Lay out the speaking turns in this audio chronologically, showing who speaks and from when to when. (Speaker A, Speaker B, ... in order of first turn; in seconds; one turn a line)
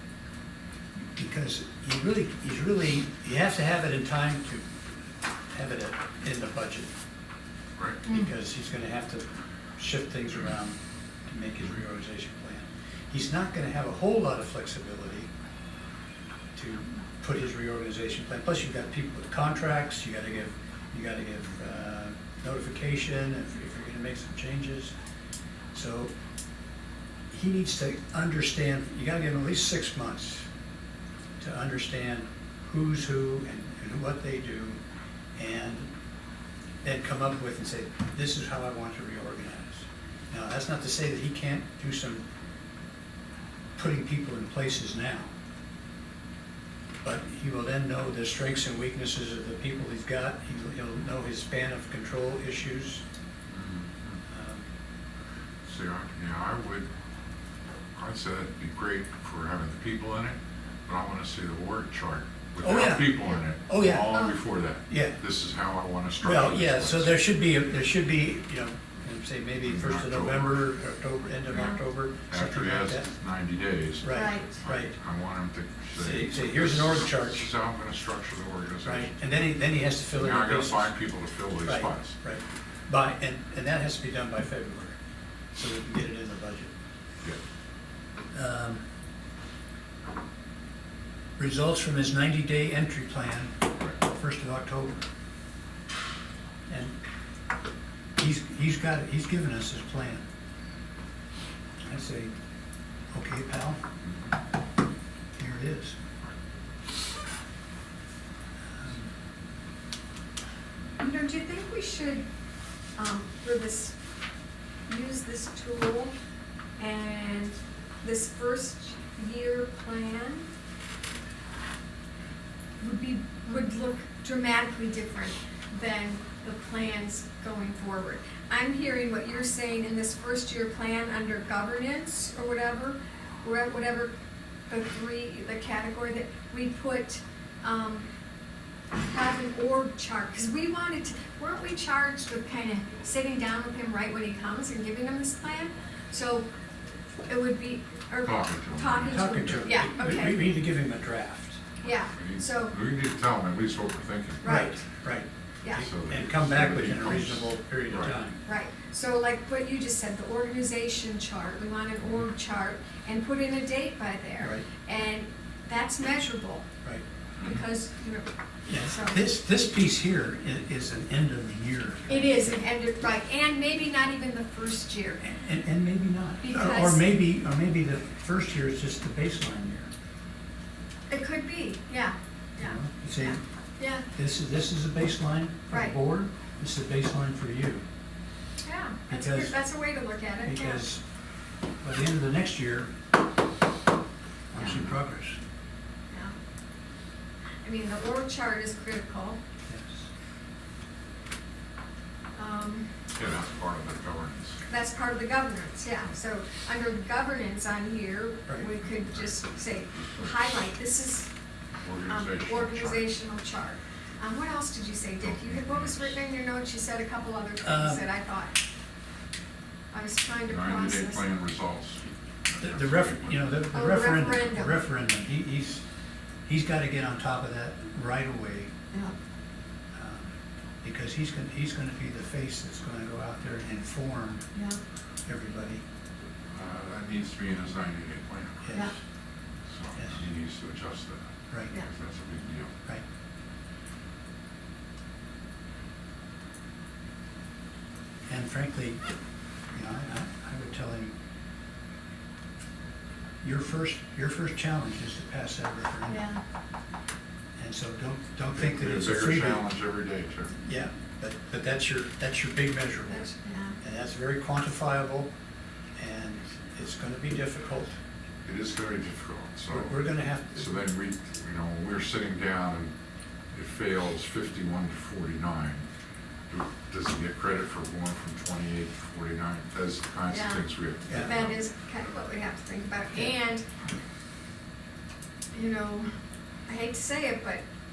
Speaker A: 1.0-4.7
Speaker A: 5.5-6.9
Speaker A: 8.0-9.2
Speaker A: 9.8-15.3
Speaker A: 16.5-24.9
Speaker A: 25.7-26.1
Speaker A: 27.3-30.5
Speaker A: 31.4-34.8
Speaker A: 35.4-35.9
Speaker A: 36.8-42.2
Speaker A: 43.8-45.3
Speaker A: 47.0-53.0
Speaker B: 53.5-54.2
Speaker A: 54.3-54.6
Speaker B: 55.6-56.9
Speaker B: 58.0-67.1
Speaker A: 62.6-64.1
Speaker C: 64.1-64.3
Speaker A: 64.9-65.2
Speaker A: 66.2-73.1
Speaker B: 69.6-70.6
Speaker C: 71.5-71.8
Speaker B: 72.3-79.1
Speaker A: 74.0-74.9
Speaker C: 74.1-74.5
Speaker A: 76.0-77.5
Speaker A: 78.8-80.9
Speaker B: 80.1-82.1
Speaker A: 81.6-85.0
Speaker A: 85.5-86.7
Speaker A: 88.3-88.8
Speaker A: 91.4-95.0
Speaker A: 96.7-97.0
Speaker A: 98.2-100.3
Speaker A: 101.8-102.3
Speaker A: 103.1-103.8
Speaker B: 104.0-104.3
Speaker A: 105.4-106.0
Speaker A: 108.8-109.1
Speaker C: 111.0-112.2
Speaker C: 113.0-113.9
Speaker C: 114.9-116.1
Speaker C: 116.8-120.5
Speaker C: 122.8-134.1
Speaker C: 134.7-138.1
Speaker C: 139.0-146.5
Speaker C: 147.3-150.5
Speaker B: 148.2-149.7
Speaker A: 149.1-151.6
Speaker C: 151.8-152.7
Speaker B: 152.1-154.4
Speaker C: 154.4-154.8
Speaker A: 154.4-158.4
Speaker B: 155.7-158.2
Speaker C: 158.4-166.7
Speaker A: 164.4-164.7
Speaker B: 167.4-167.7
Speaker C: 167.4-169.2
Speaker A: 168.7-172.6
Speaker C: 172.1-175.2
Speaker A: 175.2-179.9
Speaker C: 176.4-177.0
Speaker C: 181.1-184.1
Speaker A: 182.6-183.4
Speaker A: 184.1-187.8
Speaker C: 185.7-185.9
Speaker C: 188.6-190.8
Speaker A: 189.1-189.6
Speaker A: 190.4-191.0
Speaker A: 191.8-192.9
Speaker A: 194.5-195.4
Speaker C: 197.6-199.4
Speaker A: 199.7-200.1
Speaker C: 202.3-202.9
Speaker B: 203.1-204.6
Speaker C: 204.7-211.3
Speaker B: 211.8-213.1
Speaker C: 212.1-218.5
Speaker B: 215.2-216.2
Speaker A: 217.6-218.0
Speaker C: 219.9-221.2
Speaker B: 220.5-223.5
Speaker A: 222.6-225.8
Speaker C: 223.7-224.8
Speaker A: 226.4-228.7
Speaker A: 229.9-234.5
Speaker C: 234.5-234.8
Speaker A: 235.2-235.8
Speaker B: 236.5-238.9
Speaker A: 238.6-238.9
Speaker B: 239.7-242.7
Speaker A: 248.3-249.0
Speaker A: 249.7-251.1
Speaker A: 253.4-256.2
Speaker C: 256.1-256.4
Speaker A: 257.6-259.6
Speaker B: 258.6-260.5
Speaker A: 260.5-263.3
Speaker C: 263.1-263.8
Speaker A: 263.8-265.3
Speaker A: 266.0-268.0
Speaker B: 268.4-272.9
Speaker A: 269.7-270.7
Speaker B: 273.5-275.9
Speaker B: 276.5-281.6
Speaker C: 280.3-283.6
Speaker A: 281.1-281.3
Speaker C: 285.5-286.1
Speaker C: 286.7-287.6